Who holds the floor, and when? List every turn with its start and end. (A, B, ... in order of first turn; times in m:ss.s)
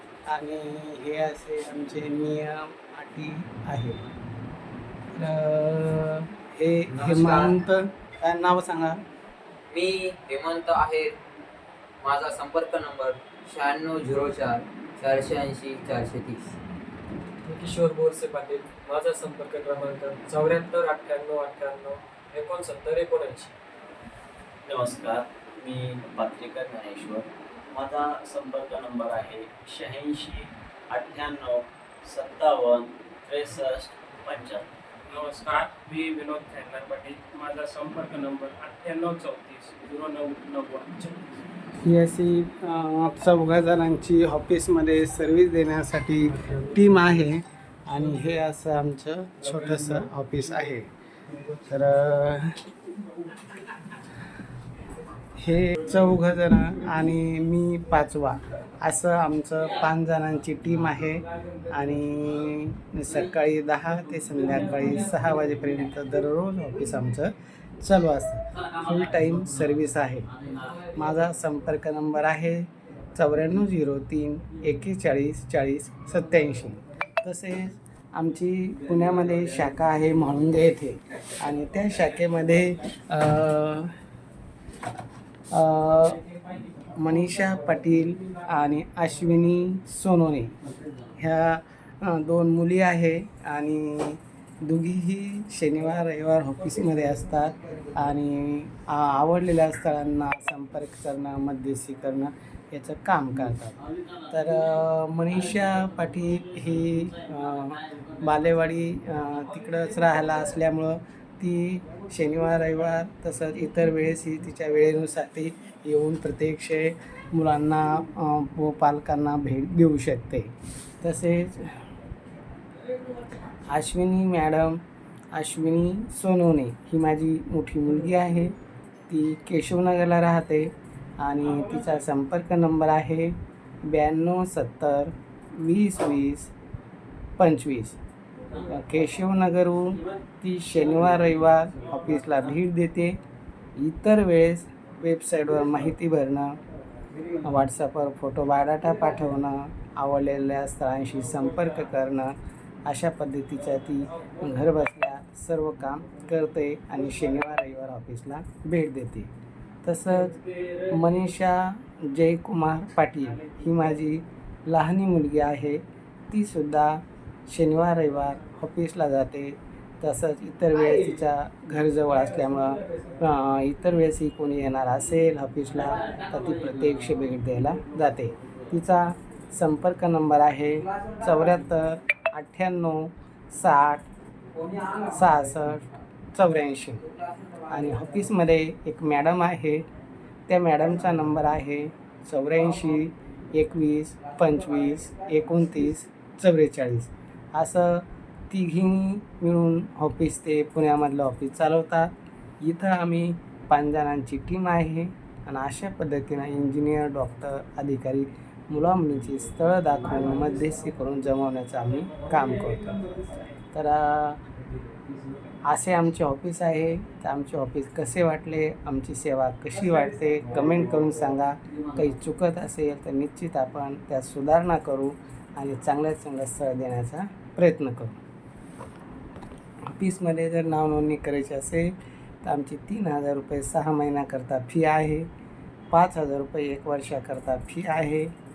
0:00.3-0:04.1 A
0:05.2-0:09.0 A
0:06.9-0:07.5 B
0:09.7-0:11.2 B
0:12.0-0:16.6 B
0:17.5-0:23.6 C
0:24.7-0:34.7 D
0:35.1-0:41.3 E
0:41.8-0:50.9 A
0:51.7-0:52.7 A
0:55.4-1:23.9 A
1:25.5-1:30.6 A
1:31.1-2:01.8 A
2:03.7-2:04.8 A
2:05.3-2:08.5 A
2:09.1-2:16.5 A
2:17.4-2:18.0 A
2:18.6-2:23.2 A
2:23.8-2:26.6 A
2:27.4-2:39.3 A
2:39.8-2:40.4 A
2:40.2-2:41.0 E
2:40.9-3:04.1 A
3:04.9-3:07.1 A
3:07.7-3:09.9 A
3:10.5-3:32.9 A
3:32.1-3:33.5 E
3:33.7-3:34.4 A
3:35.6-3:48.2 A
3:49.9-3:55.3 A
3:55.9-3:58.3 A